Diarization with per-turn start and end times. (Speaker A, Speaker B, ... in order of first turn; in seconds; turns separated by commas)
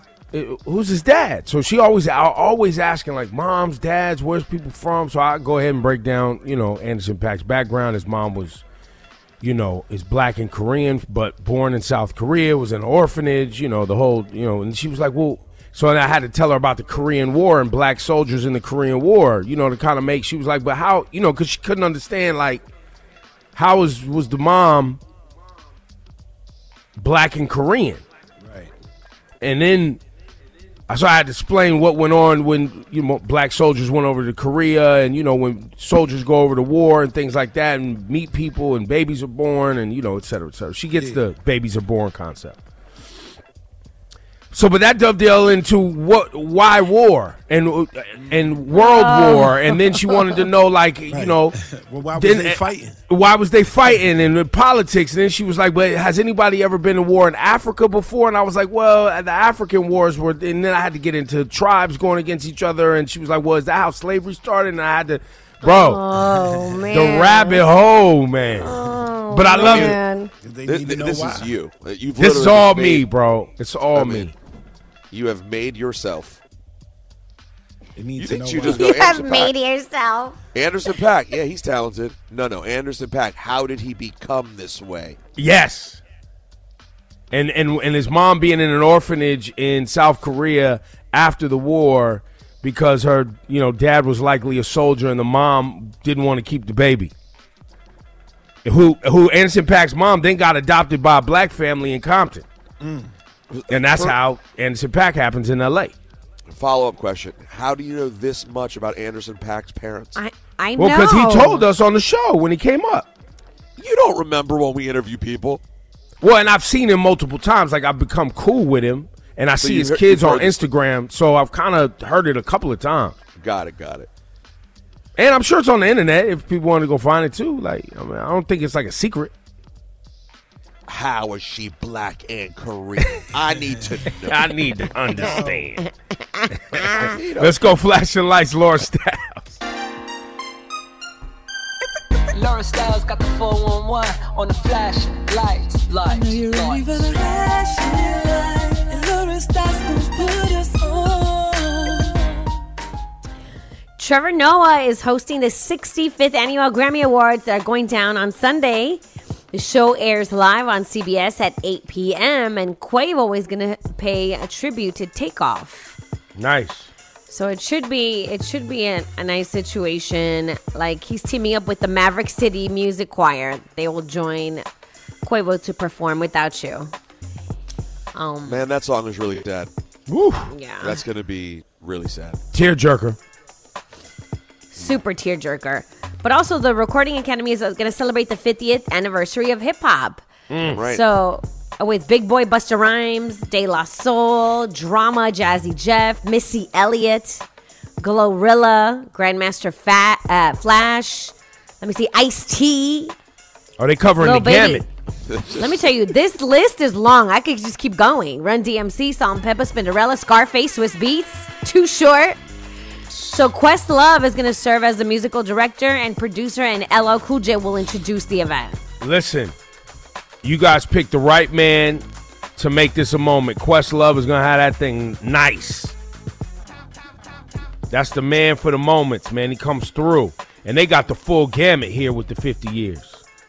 Speaker A: 0.3-8.6, Speaker A: 9.4-22.6, Speaker A: 23.6-25.0, Speaker A: 27.0-28.0, Speaker B: 28.4-28.7, Speaker A: 29.4-30.0, Speaker A: 30.9-42.6, Speaker B: 41.0-41.2, Speaker A: 44.5-51.6, Speaker C: 48.7-50.0, Speaker B: 51.1-53.0, Speaker A: 52.2-66.0, Speaker C: 65.6-67.6, Speaker A: 66.9-68.7, Speaker C: 68.6-70.3, Speaker A: 69.3-70.0, Speaker D: 69.6-69.9, Speaker B: 70.4-71.5, Speaker D: 70.7-73.0, Speaker A: 72.2-74.3, Speaker D: 73.9-74.3, Speaker D: 75.1-76.4, Speaker B: 78.0-78.9, Speaker D: 78.2-79.5, Speaker C: 78.6-80.4, Speaker D: 80.5-85.2, Speaker A: 85.4-86.0, Speaker A: 87.3-97.1, Speaker A: 98.7-102.5, Speaker B: 102.8-103.1, Speaker D: 103.5-104.1, Speaker A: 103.7-106.0, Speaker D: 106.5-110.2, Speaker C: 110.2-111.7, Speaker A: 110.8-113.1, Speaker D: 113.8-115.6, Speaker A: 116.2-123.2, Speaker D: 119.6-120.6, Speaker D: 123.3-124.1, Speaker A: 125.2-129.3, Speaker D: 130.9-134.5, Speaker B: 133.5-133.9, Speaker A: 134.2-135.8, Speaker B: 135.1-135.7, Speaker C: 136.4-137.1, Speaker A: 136.9-139.6, Speaker D: 137.0-137.6, Speaker E: 142.3-152.2, Speaker C: 154.0-166.0, Speaker A: 166.3-166.9, Speaker C: 167.3-174.7, Speaker C: 175.2-176.9, Speaker C: 178.1-178.7, Speaker D: 178.4-179.7, Speaker A: 180.1-180.5, Speaker C: 180.5-181.0, Speaker D: 180.8-182.4, Speaker A: 182.5-183.2, Speaker C: 184.7-190.2, Speaker A: 190.5-190.8, Speaker D: 190.7-191.0, Speaker C: 190.8-197.4, Speaker C: 198.0-203.2, Speaker A: 203.8-204.8, Speaker C: 204.2-204.9, Speaker D: 205.3-205.6, Speaker C: 205.6-212.4, Speaker C: 213.1-218.8, Speaker A: 219.0-219.5, Speaker A: 220.4-222.1, Speaker A: 222.6-225.9, Speaker A: 227.9-233.2